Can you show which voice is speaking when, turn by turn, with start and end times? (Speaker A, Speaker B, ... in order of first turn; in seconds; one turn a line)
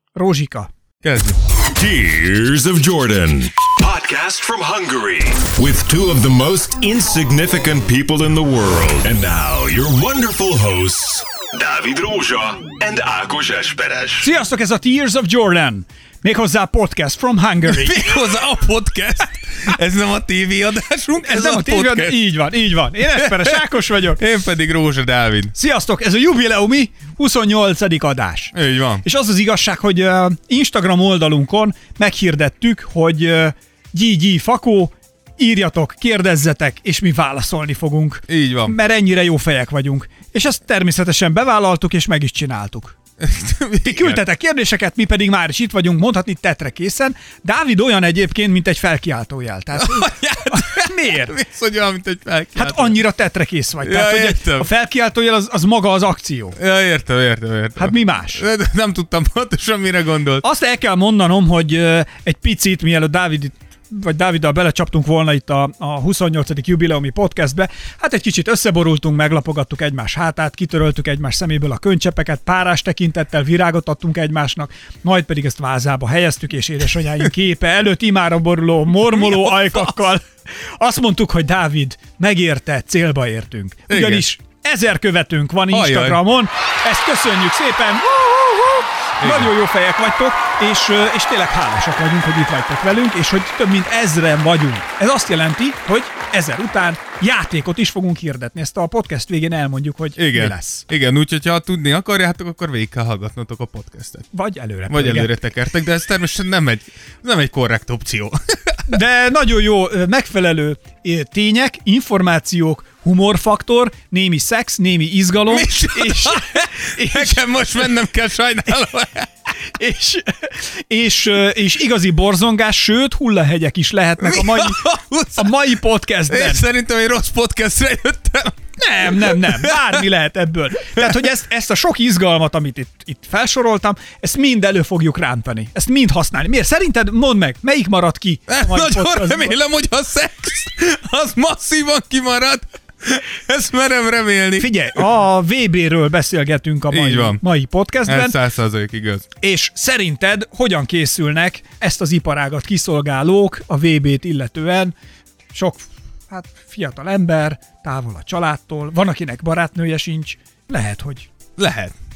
Speaker A: 0.1-0.7
Speaker B: 1.0-1.4
Speaker C: 1.8-14.3
Speaker A: 14.2-18.1
Speaker B: 17.7-22.2
Speaker A: 21.2-24.2
Speaker B: 23.1-25.5
Speaker A: 25.5-43.0
Speaker B: 28.5-29.0
Speaker B: 38.3-38.8
Speaker B: 43.2-44.2
Speaker A: 43.8-51.3
Speaker B: 49.8-53.0
Speaker A: 52.5-56.6
Speaker B: 53.8-54.7
Speaker B: 56.6-60.4
Speaker A: 57.8-58.4
Speaker A: 60.4-100.9
Speaker B: 79.0-80.1
Speaker B: 83.9-84.3
Speaker B: 85.7-86.2
Speaker B: 89.2-89.5
Speaker B: 100.2-104.3
Speaker A: 104.3-105.3
Speaker B: 104.9-109.0
Speaker A: 108.9-117.4
Speaker B: 115.5-119.3
Speaker A: 119.6-124.8
Speaker B: 124.2-125.8
Speaker A: 125.4-126.6
Speaker B: 126.3-130.0
Speaker A: 128.8-139.6
Speaker B: 138.5-144.7
Speaker A: 144.6-148.4
Speaker B: 146.9-147.4
Speaker B: 148.1-149.3
Speaker A: 149.4-154.9
Speaker A: 155.5-161.3
Speaker B: 161.6-162.0